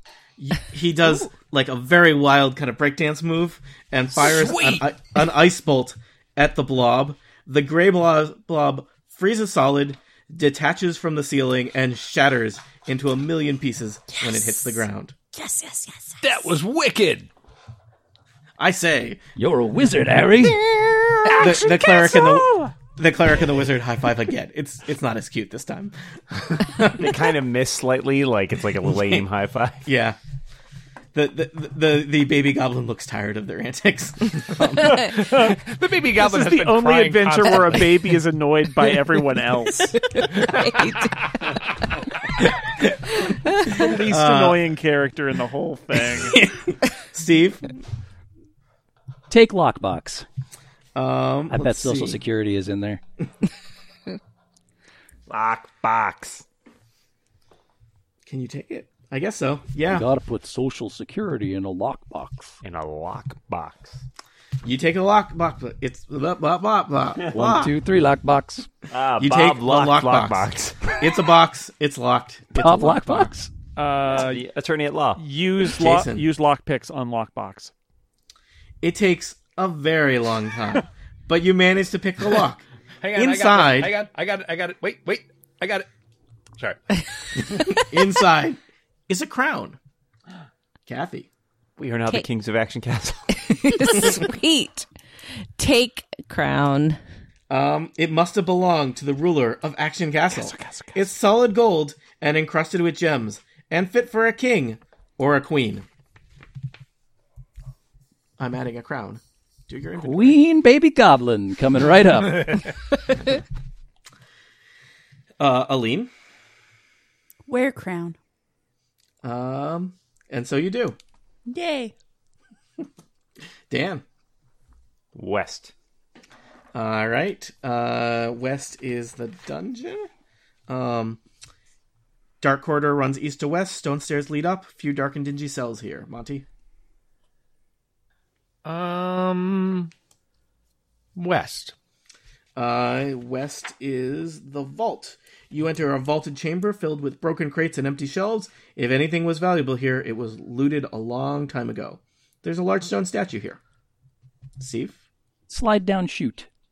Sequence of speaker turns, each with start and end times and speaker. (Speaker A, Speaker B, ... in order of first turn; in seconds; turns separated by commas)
Speaker A: 0.4-15.1, Speaker B: 4.2-4.8, Speaker C: 14.1-16.5, Speaker B: 16.2-17.3, Speaker A: 18.6-19.2, Speaker D: 19.4-20.6, Speaker B: 20.6-21.4, Speaker A: 21.4-27.2, Speaker E: 26.9-29.9, Speaker A: 29.8-30.2, Speaker A: 31.1-35.2, Speaker B: 34.9-38.0, Speaker F: 35.2-40.0, Speaker G: 40.0-41.3, Speaker G: 43.6-43.9, Speaker F: 43.8-46.4, Speaker A: 44.0-44.6, Speaker A: 46.2-47.7, Speaker D: 49.3-50.2, Speaker A: 50.9-52.2, Speaker D: 51.5-53.0, Speaker E: 55.3-56.4, Speaker A: 58.2-60.0, Speaker D: 59.9-62.6, Speaker E: 62.6-64.0, Speaker A: 64.6-67.8, Speaker D: 67.3-68.7, Speaker E: 68.9-71.0, Speaker A: 69.2-73.3, Speaker D: 72.6-73.5, Speaker F: 73.8-74.5, Speaker E: 74.1-75.2, Speaker F: 75.2-77.7, Speaker A: 75.7-76.2, Speaker A: 78.8-84.0, Speaker B: 83.0-85.9, Speaker A: 87.5-89.8, Speaker A: 90.9-91.3, Speaker E: 91.8-94.1, Speaker G: 93.5-94.9, Speaker G: 95.6-97.0, Speaker A: 97.5-105.8, Speaker F: 100.3-101.0, Speaker A: 108.4-110.4, Speaker D: 110.0-112.7, Speaker A: 115.4-116.1, Speaker C: 117.5-118.2, Speaker A: 119.2-121.0, Speaker C: 121.5-121.9, Speaker A: 123.7-124.0, Speaker E: 125.1-125.7, Speaker A: 126.7-130.1, Speaker A: 130.7-131.2, Speaker A: 132.4-136.4, Speaker B: 138.6-139.9, Speaker B: 141.2-141.7, Speaker A: 142.6-153.6, Speaker A: 154.6-155.0, Speaker D: 155.5-156.5